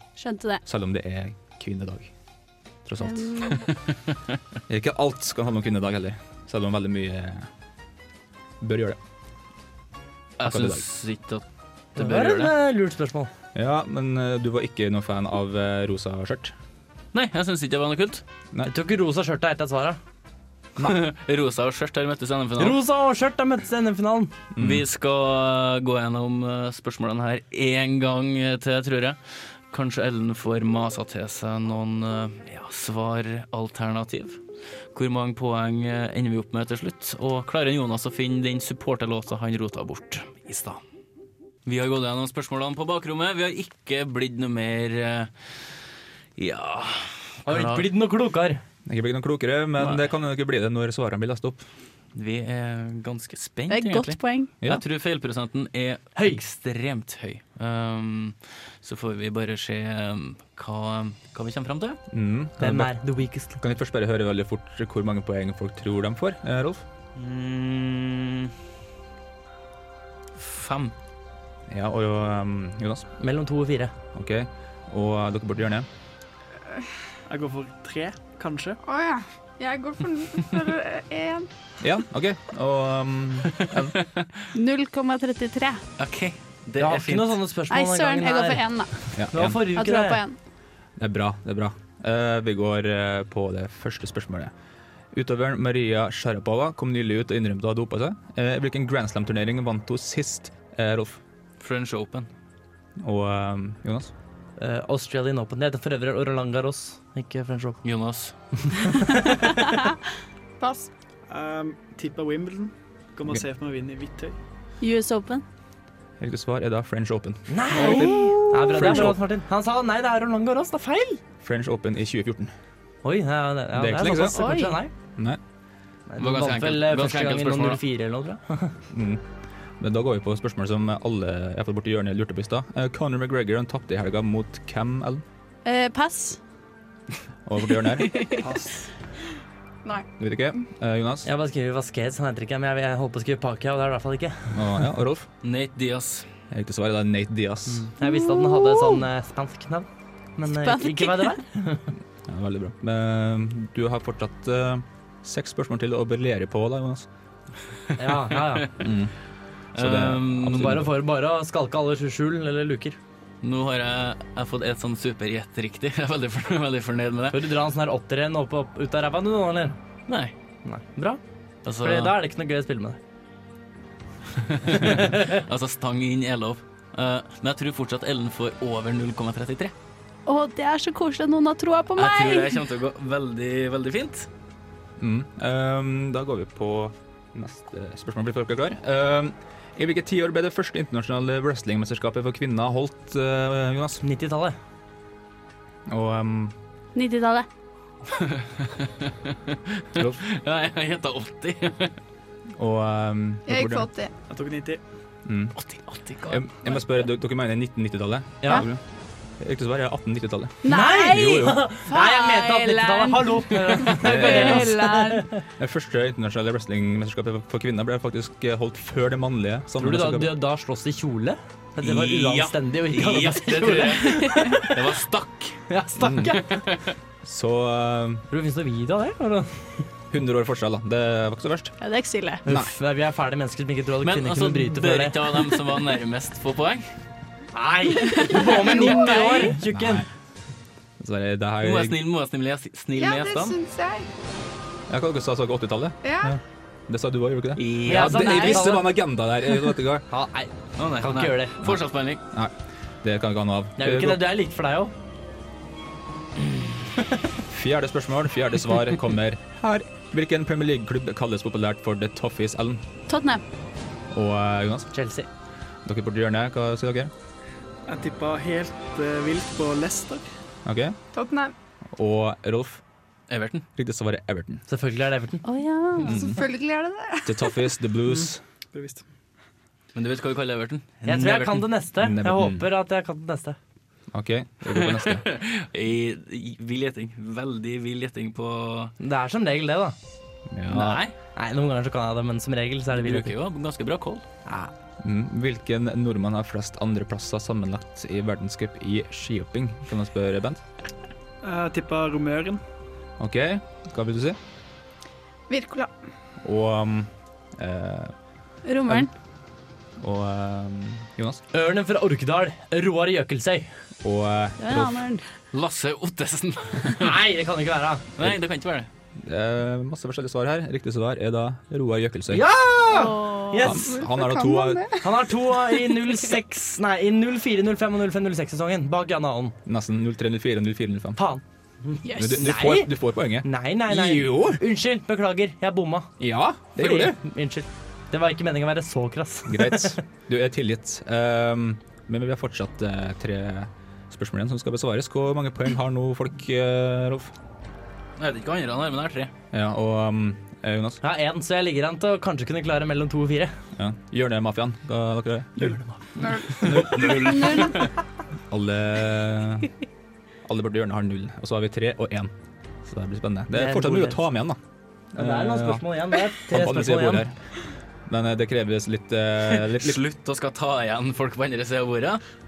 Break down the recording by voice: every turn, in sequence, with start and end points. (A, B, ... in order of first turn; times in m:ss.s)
0:00.2-0:00.6 A
0:00.6-0:02.1 B
0:02.9-0:03.5 B
0:03.0-0:03.7 A
0:04.7-0:07.5 B
0:08.6-0:09.0 B
0:10.4-0:12.5 C
0:10.4-0:10.8 B
0:12.0-0:13.3 D
0:13.6-0:16.6 B
0:17.1-0:18.2 C
0:18.6-0:20.0 D
0:20.8-0:22.8 C
0:22.6-0:24.3 D
0:24.6-0:24.8 B
0:24.6-0:29.2 C
0:29.7-0:34.4 C
0:34.9-0:40.8 C
0:41.7-0:45.7 C
0:46.4-0:47.9 C
0:47.5-0:48.6 D
0:48.9-0:51.6 B
0:52.2-1:02.0 C
0:53.7-0:54.5 A
1:02.1-1:06.8 B
1:02.6-1:03.6 D
1:07.2-1:08.5 C
1:10.4-1:10.9 C
1:11.7-1:13.1 B
1:13.2-1:13.9 D
1:14.1-1:15.9 B
1:17.3-1:18.8 E
1:18.8-1:21.5 F
1:21.8-1:24.0 B
1:23.6-1:24.4 C
1:24.5-1:25.8 A
1:26.0-1:27.4 C
1:26.8-1:28.6 D
1:27.7-1:29.2 A
1:29.1-1:29.6 B
1:29.3-1:30.2 D
1:29.7-1:30.4 A
1:31.0-1:34.5 B
1:35.1-1:41.2 B
1:41.6-1:42.3 C
1:43.0-1:44.1 B
1:44.6-1:47.8 D
1:47.8-1:48.4 C
1:48.8-1:49.6 D
1:50.6-1:50.9 F
1:51.3-1:54.4 E
1:54.8-1:55.4 A
1:56.2-1:59.2 B
1:57.5-2:01.2 D
1:57.8-1:58.8 A
2:01.4-2:02.5 B
2:03.0-2:04.9 D
2:03.7-2:04.6 B
2:04.3-2:04.8 A
2:06.1-2:08.7 D
2:06.2-2:07.8 C
2:08.9-2:09.2 B
2:09.8-2:15.2 B
2:15.6-2:16.4 A
2:17.4-2:18.3 B
2:18.0-2:18.4 A
2:18.4-2:18.9 E
2:20.2-2:21.3 B
2:21.2-2:24.6 D
2:24.5-2:25.3 B
2:25.4-2:26.3 C
2:26.5-2:27.9 B
2:27.7-2:31.9 D
2:28.0-2:29.0 A
2:30.5-2:31.4 A
2:32.3-2:37.1 B
2:38.0-2:38.7 D
2:38.8-2:39.1 B
2:39.8-2:40.7 C
2:39.8-2:40.9 B
2:40.5-2:43.0 D
2:43.4-2:47.4 C
2:47.3-2:49.8 D
2:50.1-2:50.3 C
2:50.6-2:51.2 D
2:51.6-2:52.1 C
2:51.8-2:53.0 D
2:54.4-2:59.7 C
2:54.8-2:55.4 D
3:00.3-3:02.6 A
3:02.0-3:04.3 C
3:05.0-3:14.0 B
3:14.0-3:14.6 D
3:15.9-3:16.6 B
3:17.0-3:17.5 A
3:18.1-3:22.0 C
3:20.0-3:20.2 B
3:22.6-3:23.9 B
3:23.5-3:24.1 F
3:24.3-3:24.8 E
3:25.3-3:25.6 B
3:25.6-3:26.4 C
3:26.3-3:28.8 B
3:28.4-3:28.7 D
3:29.4-3:31.6 B
3:30.6-3:35.3 A
3:30.7-3:35.3 D
3:34.0-3:34.7 B
3:35.6-3:40.4 B
3:39.8-3:44.7 D
3:41.8-3:45.6 C
3:45.7-3:46.6 D
3:46.0-3:46.4 B
3:46.4-3:46.9 C
3:47.2-3:48.2 B
3:48.3-3:49.9 D
3:50.1-3:51.8 B
3:51.8-3:52.4 A
3:52.4-3:55.2 D
3:52.5-3:52.7 B
3:54.0-3:56.9 C
3:57.5-4:00.0 D
3:58.0-3:59.6 A
3:59.7-4:00.1 B
4:01.0-4:02.0 B
4:01.6-4:03.6 C
4:03.0-4:04.1 F
4:04.9-4:10.1 B
4:06.0-4:06.4 F
4:07.6-4:08.6 C
4:07.9-4:09.0 D
4:10.1-4:11.6 D
4:10.8-4:12.2 C
4:11.6-4:14.2 B
4:13.8-4:14.9 D
4:17.5-4:22.8 B
4:23.1-4:23.4 A
4:24.1-4:24.9 B
4:24.9-4:25.3 D
4:25.8-4:27.1 B
4:27.9-4:30.3 E
4:30.7-4:31.0 B
4:31.1-4:31.5 F
4:32.0-4:32.8 B
4:33.3-4:33.6 C
4:33.8-4:34.6 B
4:34.7-4:35.4 D
4:35.4-4:36.3 A
4:36.0-4:36.4 B
4:36.0-4:37.5 F
4:37.2-4:38.4 B
4:38.1-4:39.0 E
4:40.0-4:41.7 C
4:41.0-4:43.6 D
4:42.0-4:42.7 B
4:44.1-4:45.3 B
4:44.7-4:48.9 C
4:49.0-4:50.0 D
4:50.5-4:51.0 B
4:50.7-4:51.1 C
4:51.4-4:53.3 D
4:52.9-4:54.2 C
4:54.5-4:54.7 D
4:55.0-5:00.6 B
5:01.4-5:02.6 E
5:03.2-5:04.4 B
5:05.5-5:05.9 F
5:06.4-5:08.1 B
5:08.6-5:09.1 A
5:10.0-5:11.4 B
5:11.5-5:13.7 D
5:14.0-5:15.0 B
5:14.6-5:15.2 A
5:15.5-5:17.2 C
5:17.0-5:18.1 D
5:18.2-5:18.9 C
5:19.2-5:22.4 B
5:22.3-5:24.0 D
5:22.9-5:23.8 A
5:23.6-5:24.9 B
5:24.0-5:25.0 F
5:25.0-5:29.6 D
5:29.7-5:31.2 B
5:31.2-5:36.1 D
5:32.0-5:32.4 A
5:32.1-5:34.6 B
5:36.2-5:37.2 B
5:36.8-5:40.0 D
5:39.5-5:47.3 B
5:48.2-5:49.3 C
5:49.5-5:51.0 B
5:51.0-5:53.6 D
5:53.8-5:55.8 B
5:55.6-5:56.0 D
5:56.2-5:57.2 F
5:56.6-5:57.7 B
5:56.8-5:57.9 C
5:58.5-5:59.7 B
6:00.4-6:02.3 B
6:02.8-6:04.6 B
6:03.5-6:04.2 D
6:05.2-6:07.3 D
6:05.2-6:07.4 B
6:08.1-6:10.0 B
6:09.5-6:12.2 C